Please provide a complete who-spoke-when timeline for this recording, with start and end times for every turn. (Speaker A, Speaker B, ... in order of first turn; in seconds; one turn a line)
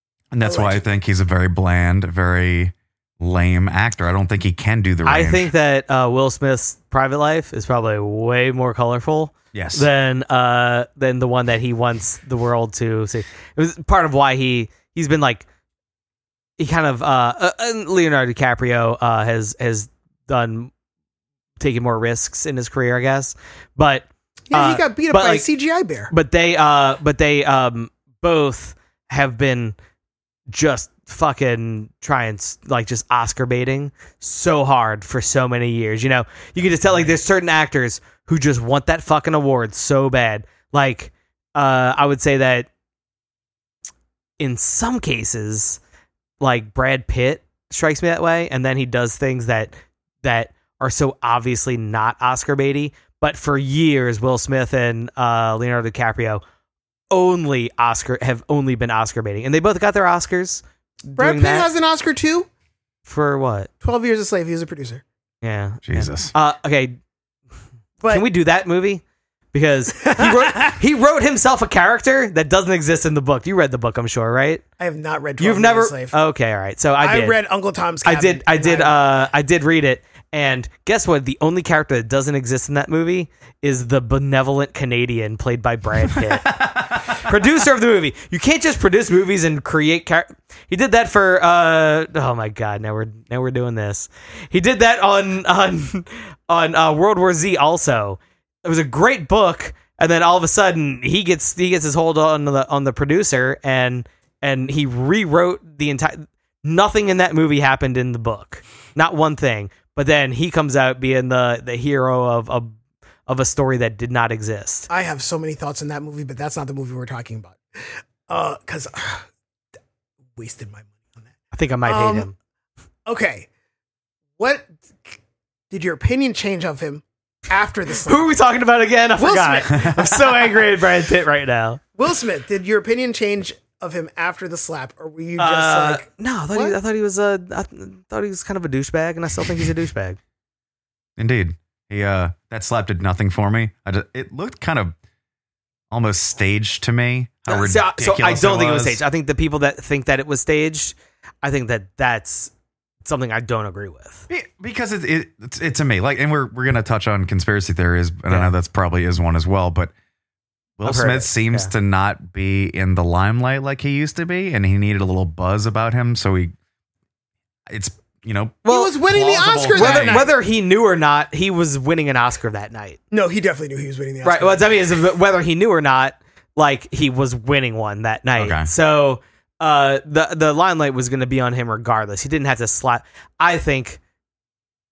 Speaker A: 0.3-5.5
Speaker B: 0.4-0.8
Speaker C: 5.1-15.4
Speaker A: 9.5-9.9
Speaker C: 16.6-20.7
Speaker C: 21.6-25.5
Speaker B: 24.5-26.1
Speaker C: 26.1-29.8
Speaker C: 30.5-42.7
Speaker C: 44.4-45.8
Speaker C: 46.4-49.7
Speaker C: 50.2-56.4
Speaker C: 57.1-61.7
Speaker B: 61.2-62.5
Speaker C: 63.0-63.7
Speaker B: 63.8-65.0
Speaker C: 65.4-67.0
Speaker A: 65.9-66.3
Speaker B: 68.0-68.2
Speaker C: 68.1-74.6
Speaker B: 70.0-70.7
Speaker B: 74.8-76.2
Speaker C: 75.4-77.4
Speaker B: 77.0-79.0
Speaker C: 78.0-112.7
Speaker A: 86.4-87.3
Speaker C: 113.3-114.9
Speaker B: 114.9-119.2
Speaker B: 120.4-121.3
Speaker C: 121.5-122.3
Speaker B: 121.9-122.3
Speaker B: 123.1-123.5
Speaker B: 124.4-125.2
Speaker B: 125.7-128.3
Speaker C: 128.0-131.8
Speaker B: 129.2-130.2
Speaker B: 132.0-136.8
Speaker C: 135.4-140.2
Speaker A: 141.2-144.9
Speaker A: 145.9-149.0
Speaker C: 147.5-152.5
Speaker C: 153.0-154.3
Speaker A: 154.3-159.9
Speaker C: 158.3-158.5
Speaker A: 160.8-166.5
Speaker C: 160.8-161.7
Speaker A: 167.7-170.2
Speaker C: 168.7-168.9
Speaker B: 168.7-170.3
Speaker C: 169.7-173.0
Speaker B: 173.1-174.7
Speaker C: 174.2-184.0
Speaker A: 178.4-178.7